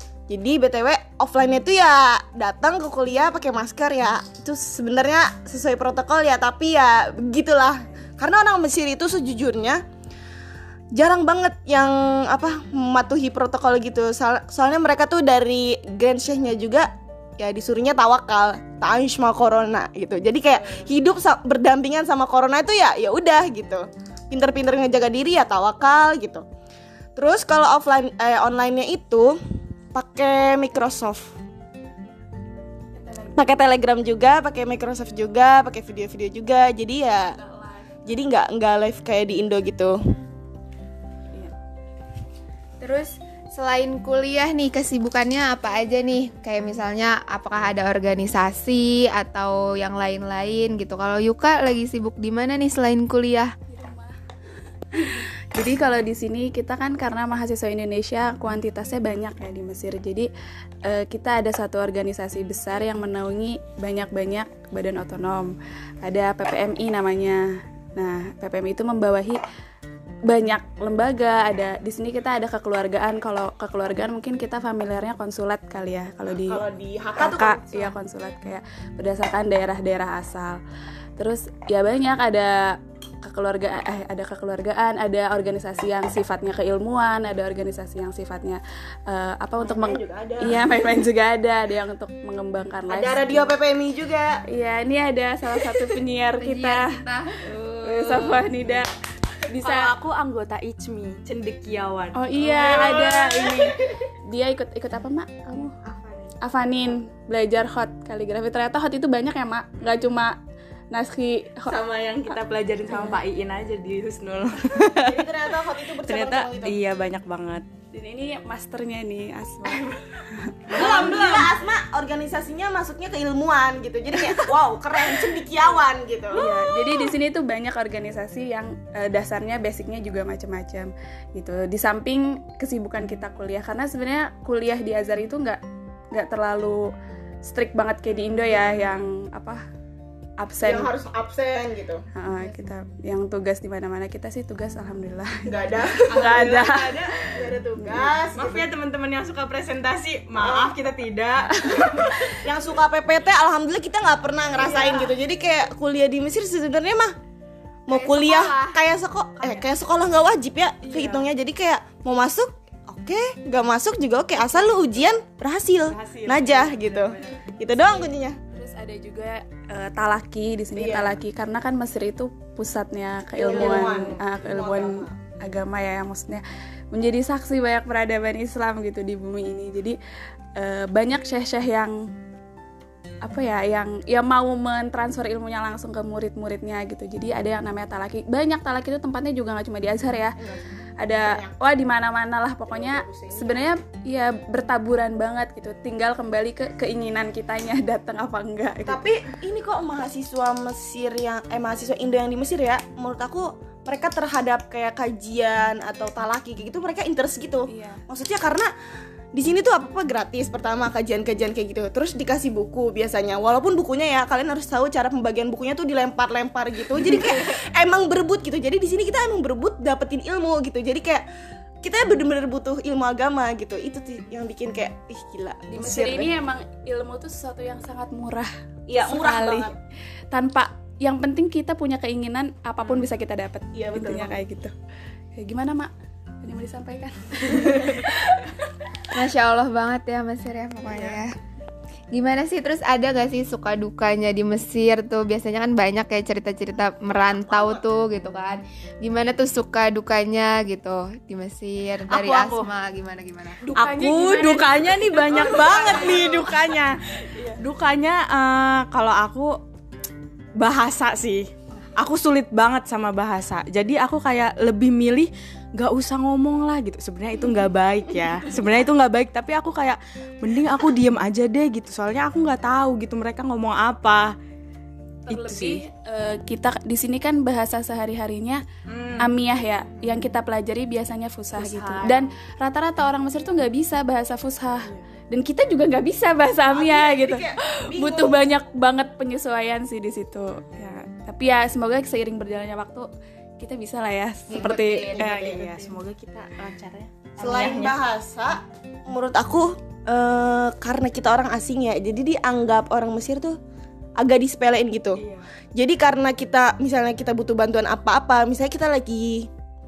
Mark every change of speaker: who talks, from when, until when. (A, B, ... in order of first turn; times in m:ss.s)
0:00.3-0:09.8 A
0:10.9-0:26.4 A
0:27.2-0:29.4 A
0:29.9-0:31.3 A
0:33.0-0:33.3 B
0:33.3-0:37.4 A
0:37.2-0:38.0 B
0:38.0-0:40.0 A
0:42.8-0:53.5 C
0:53.7-0:54.2 B
0:54.9-1:00.3 B
1:00.8-1:09.4 B
1:10.3-1:16.6 B
1:16.3-1:17.9 A
1:17.2-1:20.6 B
1:21.2-1:33.5 B
1:29.6-1:30.7 A
1:32.9-1:34.4 A
1:34.5-1:37.0 B
1:36.4-1:37.7 C
1:37.8-1:39.9 B
1:39.6-1:42.2 D
1:42.1-1:45.7 B
1:42.4-1:43.7 A
1:46.4-1:50.4 B
1:50.9-1:51.8 B
1:51.7-1:55.3 D
1:52.9-1:53.2 B
1:54.9-1:56.8 A
1:56.0-1:57.6 D
1:57.9-2:01.4 B
2:00.7-2:07.1 A
2:06.3-2:15.6 B
2:16.1-2:16.9 B
2:17.4-2:19.6 B
2:20.4-2:20.9 B
2:20.6-2:22.0 A
2:22.1-2:25.4 B
2:25.4-2:28.7 A
2:25.9-2:28.1 B
2:26.2-2:26.9 D
2:28.3-2:32.3 D
2:30.4-2:30.7 A
2:31.7-2:32.0 B
2:32.4-2:37.1 A
2:34.6-2:35.1 D
2:37.9-2:48.4 A
2:37.9-2:38.8 C
2:40.9-2:41.2 B
2:45.9-2:47.2 D
2:47.2-3:00.0 B
2:50.7-2:51.1 A
2:53.4-2:55.1 A
2:53.5-2:54.0 D
3:00.6-3:02.1 B
3:03.2-3:10.4 B
3:10.4-3:10.6 A
3:11.0-3:19.0 B
3:11.2-3:11.5 A
3:12.7-3:13.7 A
3:18.8-3:28.7 A
3:27.7-3:28.0 B
3:29.3-3:41.2 A
3:41.8-3:46.3 A
3:45.7-3:49.7 B
3:48.9-3:49.8 A
3:50.3-3:54.7 B
3:53.7-3:54.4 A
3:55.3-3:58.5 B
3:59.1-4:01.3 C
4:02.1-4:13.6 C
4:07.2-4:07.8 A
4:12.1-4:12.7 D
4:13.6-4:16.2 B
4:13.7-4:19.6 D
4:15.3-4:16.5 A
4:17.3-4:17.6 B
4:20.6-4:34.3 D
4:35.3-4:38.6 B
4:35.3-4:35.8 D
4:38.9-4:39.2 D
4:39.2-4:53.1 B
4:41.5-4:42.3 D
4:46.7-4:48.4 A
4:53.6-4:55.2 B
4:54.5-4:55.2 C
4:55.1-4:55.7 A
4:55.2-4:58.0 D
4:57.4-5:03.6 A
5:04.2-5:05.2 A
5:05.2-5:05.4 D
5:05.7-5:09.5 A